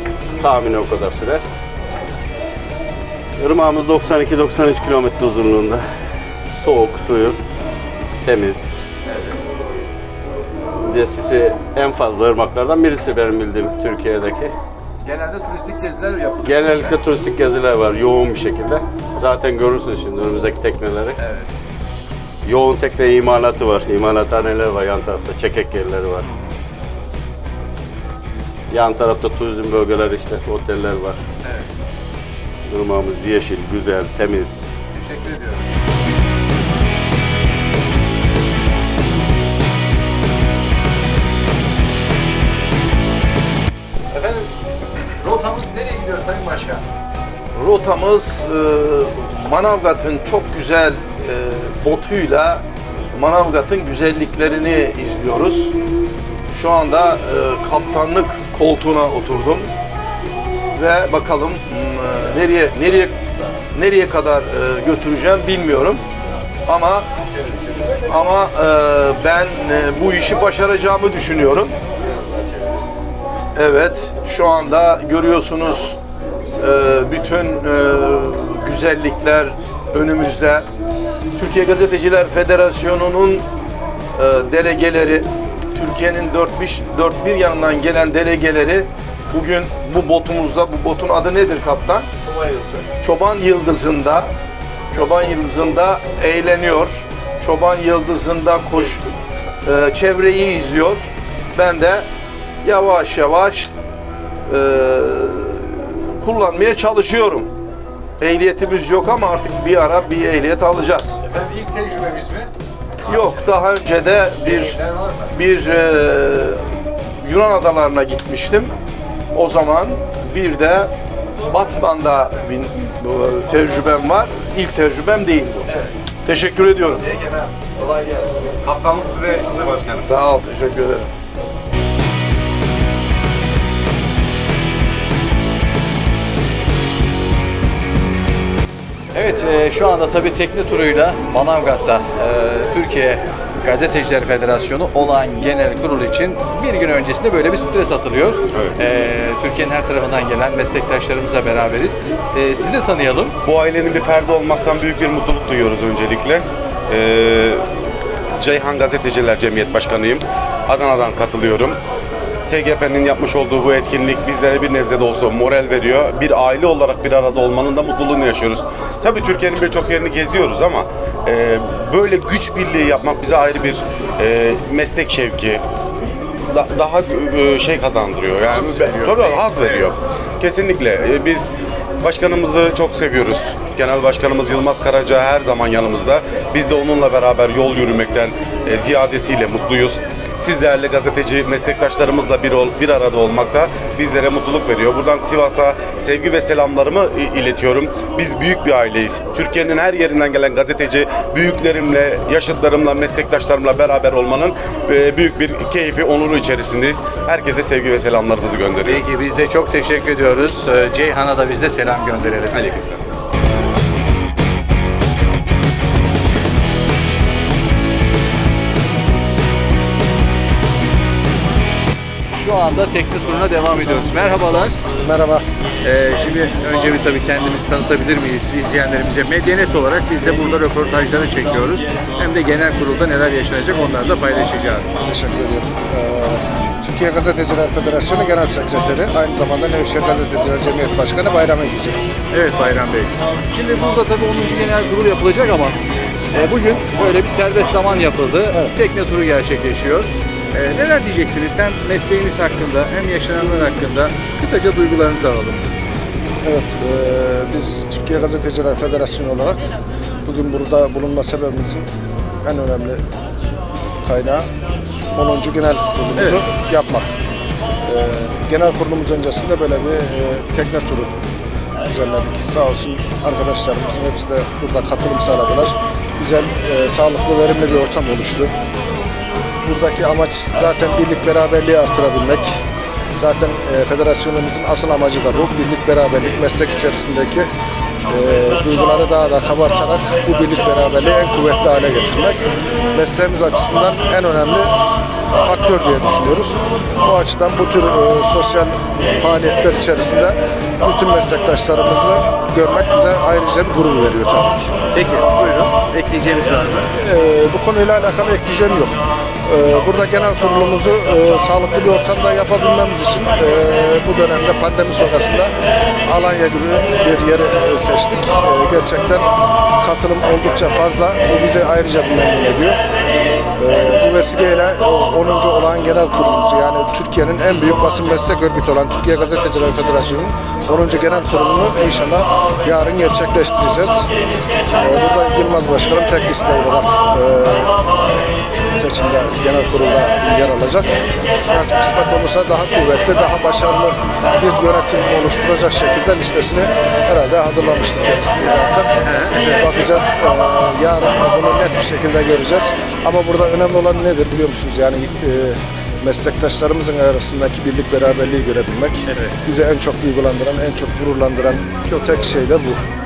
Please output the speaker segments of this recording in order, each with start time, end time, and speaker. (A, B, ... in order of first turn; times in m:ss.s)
0:00.4-0:01.4 A
0:03.4-0:05.8 A
0:06.5-0:07.4 A
0:08.2-0:08.8 A
0:09.0-0:09.4 B
0:10.8-0:14.5 A
0:15.0-0:17.0 B
0:16.4-0:21.2 A
0:21.2-0:21.5 B
0:22.4-0:26.3 A
0:28.7-0:31.2 A
0:31.4-0:31.7 B
0:32.7-0:34.7 A
0:34.9-0:35.7 B
0:44.1-0:44.5 B
0:45.2-0:46.8 B
0:47.5-0:55.7 C
0:56.5-0:59.7 C
1:00.7-1:03.2 C
1:03.7-1:06.0 C
1:06.6-1:07.0 C
1:08.1-1:11.7 C
1:13.5-1:16.0 C
1:16.6-1:20.6 C
1:21.4-1:23.4 C
1:24.2-1:32.1 C
1:32.9-1:34.3 C
1:34.9-1:39.0 C
1:39.6-1:42.1 C
1:42.6-1:43.7 C
1:44.5-1:47.5 C
1:48.2-1:51.2 C
1:51.2-1:52.5 B
1:53.0-1:55.3 B
1:53.1-1:54.8 C
1:55.3-1:56.6 C
1:57.2-1:58.7 C
1:59.3-2:00.9 C
2:01.5-2:05.6 C
2:06.2-2:07.0 C
2:06.8-2:08.5 B
2:08.6-2:10.1 D
2:10.0-2:11.1 C
2:19.1-2:33.3 B
2:33.4-2:37.6 D
2:38.4-2:41.8 D
2:42.5-2:55.6 D
2:56.5-3:29.0 D
2:58.5-2:59.6 B
3:28.8-3:32.6 B
3:32.5-3:33.0 D
3:42.3-3:44.8 B
3:45.0-3:45.4 E
3:45.8-3:55.0 B
3:55.0-4:02.1 E
4:02.3-4:05.8 B
4:06.3-4:15.7 B
4:08.5-4:08.8 E
4:16.4-4:19.6 E
4:20.2-4:21.9 E
4:22.4-4:23.0 E
4:24.0-4:24.5 E
4:25.1-4:27.1 E
4:26.2-4:26.4 B
4:27.8-4:31.1 E
4:31.8-4:38.5 E
4:39.6-4:42.6 E
4:43.2-4:47.5 E
4:48.1-4:54.7 E
4:55.4-5:04.7 E
5:04.9-5:06.8 B
5:06.9-5:15.5 E
5:16.0-5:22.8 E
5:23.6-5:34.1 E
5:34.8-5:37.7 E
5:38.7-5:48.9 E
5:49.2-5:49.6 B
5:49.4-6:02.8 E
5:59.1-5:59.3 B
6:01.8-6:02.4 B